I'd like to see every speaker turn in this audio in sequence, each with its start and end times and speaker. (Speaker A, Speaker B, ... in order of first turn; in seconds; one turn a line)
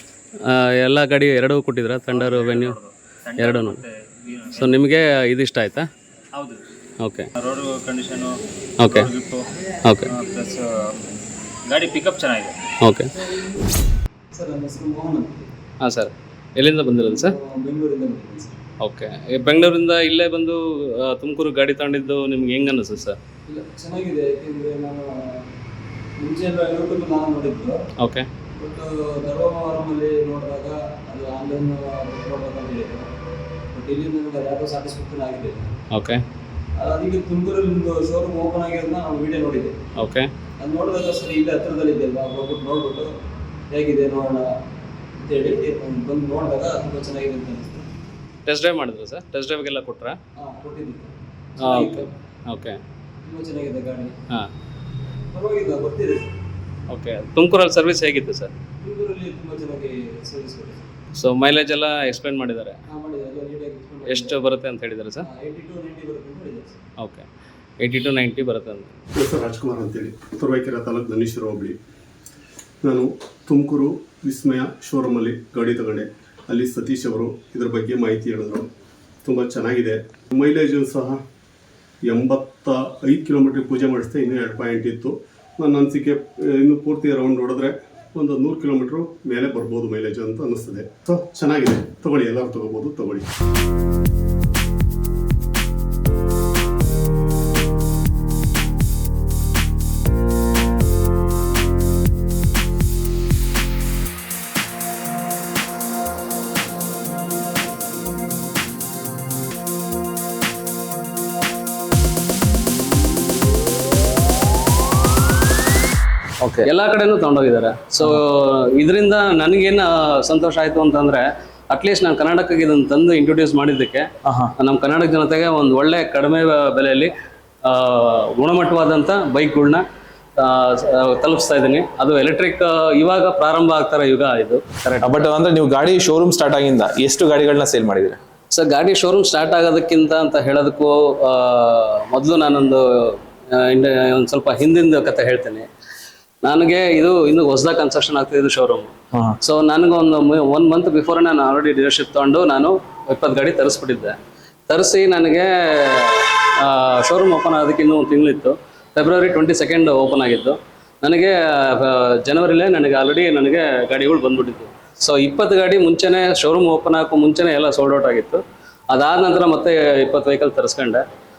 Speaker A: 0.4-2.8
Speaker B: 2.1-4.8
Speaker A: 3.4-3.8
Speaker A: 4.5-5.9
Speaker B: 6.3-6.6
Speaker A: 7.0-7.3
Speaker B: 7.3-12.7
Speaker A: 8.8-9.1
Speaker A: 9.8-10.2
Speaker A: 12.8-13.3
Speaker C: 14.4-15.3
Speaker A: 15.8-17.4
Speaker C: 17.4-18.4
Speaker A: 18.8-23.2
Speaker C: 23.5-25.0
Speaker C: 26.2-27.8
Speaker A: 28.0-28.3
Speaker C: 28.6-33.0
Speaker C: 33.7-35.7
Speaker A: 35.9-36.2
Speaker C: 36.8-39.7
Speaker A: 40.0-40.3
Speaker C: 40.6-43.1
Speaker C: 43.7-44.4
Speaker C: 45.2-47.8
Speaker A: 48.5-50.2
Speaker C: 50.4-51.0
Speaker A: 51.6-52.8
Speaker C: 53.3-54.1
Speaker C: 55.3-56.3
Speaker A: 56.9-58.5
Speaker C: 58.8-60.8
Speaker A: 61.1-62.8
Speaker C: 62.9-64.1
Speaker A: 64.0-65.3
Speaker C: 65.3-66.6
Speaker A: 67.0-67.3
Speaker A: 67.8-68.9
Speaker C: 69.2-70.8
Speaker D: 69.3-71.7
Speaker C: 72.8-74.7
Speaker D: 73.6-78.6
Speaker C: 75.3-75.8
Speaker C: 77.3-77.8
Speaker D: 79.2-81.2
Speaker D: 82.0-93.2
Speaker E: 116.4-116.7
Speaker A: 116.6-127.1
Speaker E: 124.2-124.5
Speaker A: 127.6-129.8
Speaker A: 130.4-135.2
Speaker E: 135.0-138.2
Speaker A: 138.5-145.7
Speaker A: 146.4-154.2
Speaker A: 154.7-171.0